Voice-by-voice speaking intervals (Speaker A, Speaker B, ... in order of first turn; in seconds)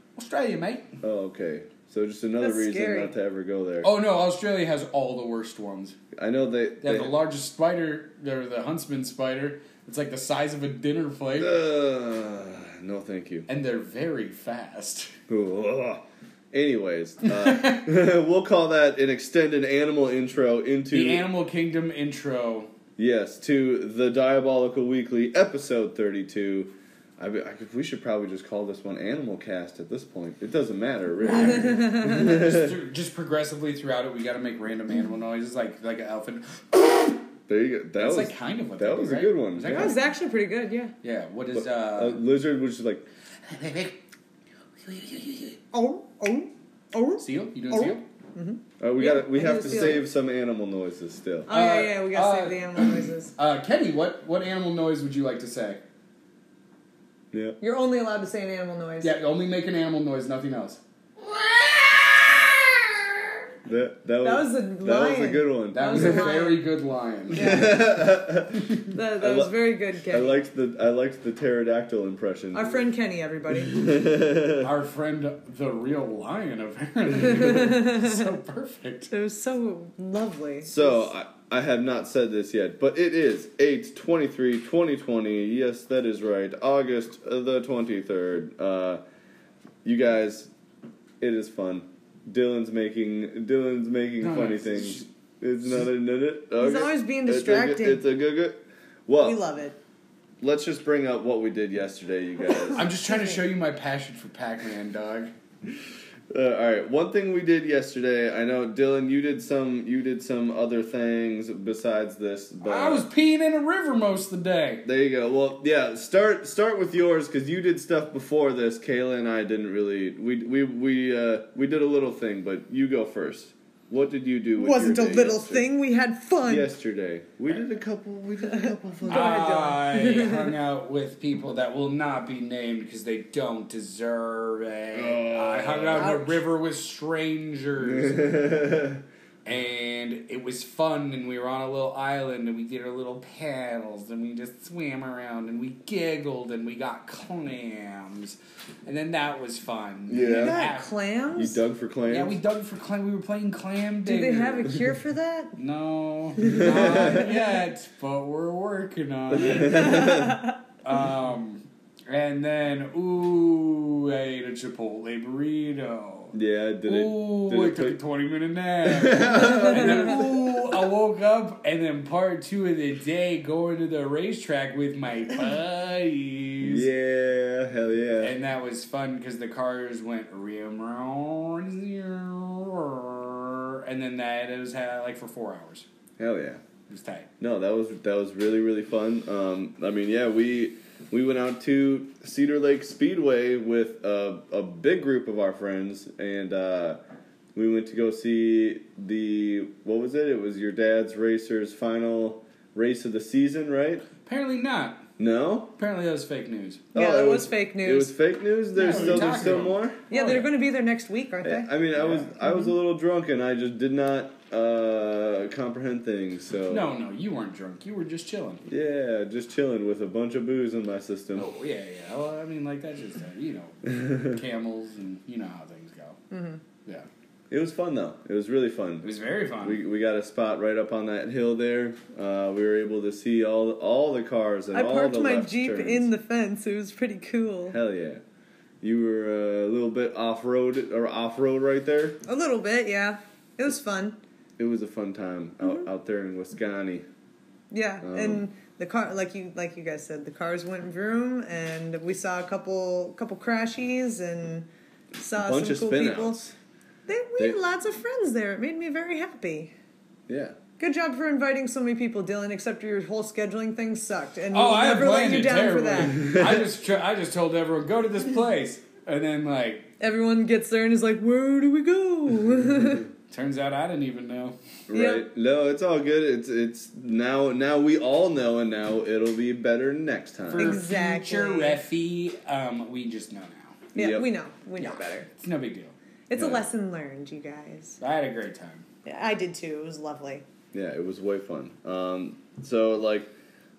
Speaker A: 0.1-0.9, 3.8-6.0, 6.8-11.6, 13.5-15.1, 17.2-17.9, 20.9-22.7, 31.2-37.2, 38.0-40.1, 41.0-42.2, 43.4-44.0, 44.8-45.6, 47.2-48.0, 51.5-55.8, 59.0-60.8, 61.4-62.7, 65.7-67.8, 74.6-79.1, 94.2-95.1, 102.7-105.3, 112.6-114.8, 129.1-138.4, 139.4-150.9, 152.1-154.7, 155.6-160.2, 160.8-166.3, 166.8-176.9, 178.2-185.9, 186.9-187.3, 204.2-205.1, 205.8-206.8, 208.7-210.5, 211.9-212.3, 216.7-218.7, 221.3-226.2, 229.0-229.8, 264.5-269.9, 273.3-274.6, 280.5-283.9, 284.8-285.9, 288.0-288.9
Speaker B: 1.0-3.9, 6.1-7.1, 11.4-13.5, 15.3-21.2, 23.0-32.8, 37.5-39.9, 41.5-43.0, 48.8-51.5, 57.3-57.6, 63.6-66.3, 67.3-72.8, 73.5-74.7, 80.6-89.0, 89.8-90.5, 91.2-99.4, 100.4-102.8, 106.3-113.1, 114.8-125.7, 126.4-129.5, 134.9-136.2, 137.8-139.0, 150.1-150.6, 151.3-152.4, 156.5-157.3, 159.3-160.4, 166.3-168.0, 168.8-170.8, 176.6-178.3, 186.2-186.6, 187.4-197.0, 197.5-204.1, 205.2-205.7, 206.9-210.0, 211.4-216.9, 218.7-221.5, 227.5-229.1, 229.6-236.1, 237.7-238.2, 238.8-242.2, 244.6-247.1, 248.0-248.4, 255.4-256.5, 260.3-260.6, 266.3-266.6, 274.9-280.8, 283.9-284.3, 286.4-286.6, 290.7-293.3
Speaker C: 2.4-3.1, 31.2-32.3, 39.7-40.9, 45.7-50.0, 51.5-53.3, 57.6-59.1, 64.2-66.6, 67.3-67.9, 68.9-70.4, 72.5-73.7, 77.5-78.2, 79.1-81.1, 96.6-98.0, 99.2-99.8, 102.5-103.4, 124.5-126.7, 128.5-130.5, 135.9-136.4, 150.2-151.6, 154.0-155.6, 156.4-157.2, 159.6-160.5, 169.3-170.1, 206.9-208.1, 208.8-209.3, 210.1-211.7, 212.4-212.7, 226.3-226.6, 234.7-237.8, 242.2-244.2, 247.7-254.7, 255.2-256.4, 257.1-259.7, 260.8-266.3, 270.0-273.1, 274.9-275.2, 280.5-281.8, 283.9-285.3, 286.3-288.0, 289.0-290.4